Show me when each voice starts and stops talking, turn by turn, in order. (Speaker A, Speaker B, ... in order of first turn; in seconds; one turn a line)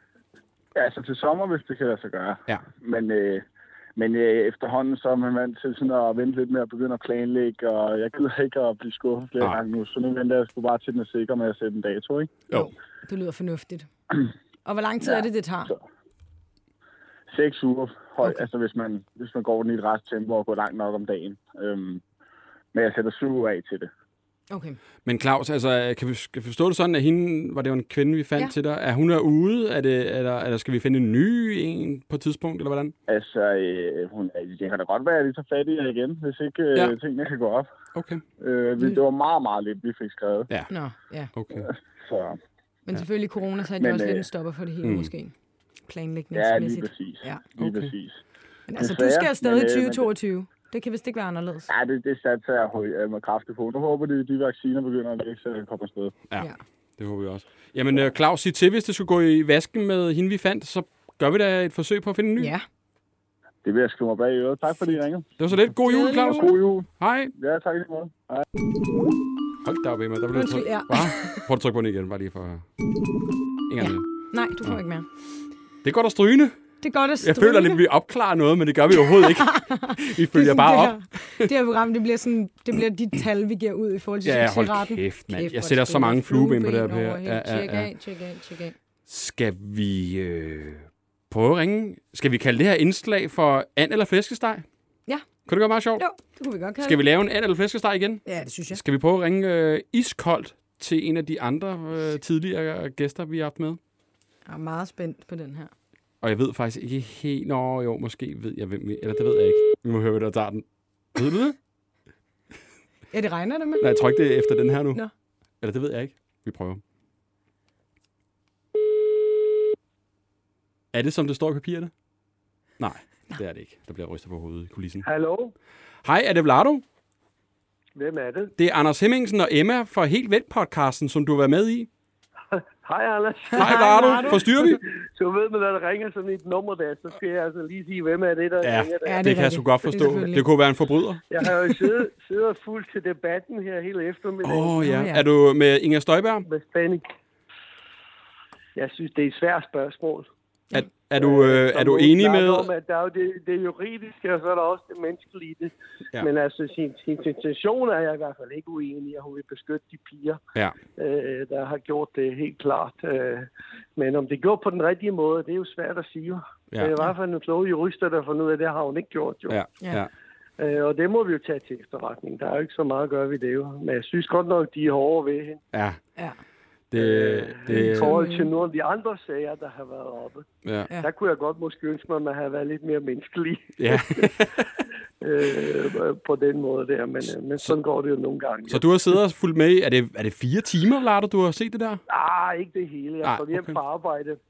Speaker A: 0.8-3.4
Speaker A: 4.0-12.4
Speaker B: 12.5-13.9
Speaker B: 14.7-15.7
Speaker A: 15.0-15.8
Speaker A: 17.3-22.0
Speaker A: 22.7-23.9
Speaker B: 24.5-24.8
Speaker C: 25.1-33.0
Speaker A: 33.1-37.7
Speaker C: 37.9-38.2
Speaker A: 38.4-40.5
Speaker B: 40.7-41.3
Speaker C: 41.3-41.7
Speaker A: 41.6-42.4
Speaker B: 42.9-45.3
Speaker A: 43.8-44.3
Speaker C: 44.8-45.1
Speaker B: 45.9-47.5
Speaker A: 46.3-48.2
Speaker C: 47.6-47.9
Speaker B: 48.7-51.7
Speaker A: 48.8-50.1
Speaker A: 51.7-56.2
Speaker C: 56.3-62.5
Speaker B: 62.4-62.6
Speaker A: 63.6-65.3
Speaker C: 65.4-67.3
Speaker B: 65.8-66.5
Speaker A: 66.1-68.5
Speaker C: 69.6-72.7
Speaker B: 70.3-71.4
Speaker C: 73.7-74.0
Speaker B: 73.8-75.1
Speaker C: 75.8-76.6
Speaker B: 76.8-77.8
Speaker C: 77.2-81.5
Speaker B: 79.1-88.8
Speaker C: 84.2-87.9
Speaker C: 89.1-94.7
Speaker C: 95.5-96.0
Speaker B: 96.0-97.0
Speaker C: 96.8-103.8
Speaker B: 98.2-98.8
Speaker B: 104.5-105.7
Speaker C: 106.2-111.6
Speaker B: 113.1-113.9
Speaker C: 113.8-115.0
Speaker C: 115.6-116.8
Speaker C: 120.9-121.9
Speaker C: 122.8-125.1
Speaker D: 125.0-125.5
Speaker C: 126.0-126.8
Speaker D: 128.0-128.5
Speaker C: 128.6-131.9
Speaker D: 132.5-139.2
Speaker B: 133.5-134.4
Speaker C: 133.6-134.8
Speaker C: 138.6-141.2
Speaker B: 139.1-140.4
Speaker D: 141.3-144.9
Speaker C: 144.4-146.5
Speaker B: 144.8-145.2
Speaker D: 146.4-147.0
Speaker D: 148.8-150.3
Speaker C: 150.7-152.7
Speaker D: 151.2-160.4
Speaker D: 161.0-169.6
Speaker C: 169.5-170.1
Speaker D: 170.6-175.6
Speaker C: 175.7-176.0
Speaker C: 176.9-178.2
Speaker D: 176.9-180.5
Speaker B: 177.7-178.5
Speaker C: 180.7-180.9
Speaker D: 181.0-184.3
Speaker C: 183.8-184.7
Speaker D: 185.2-188.9
Speaker C: 188.7-192.0
Speaker D: 192.1-194.4
Speaker C: 193.2-193.8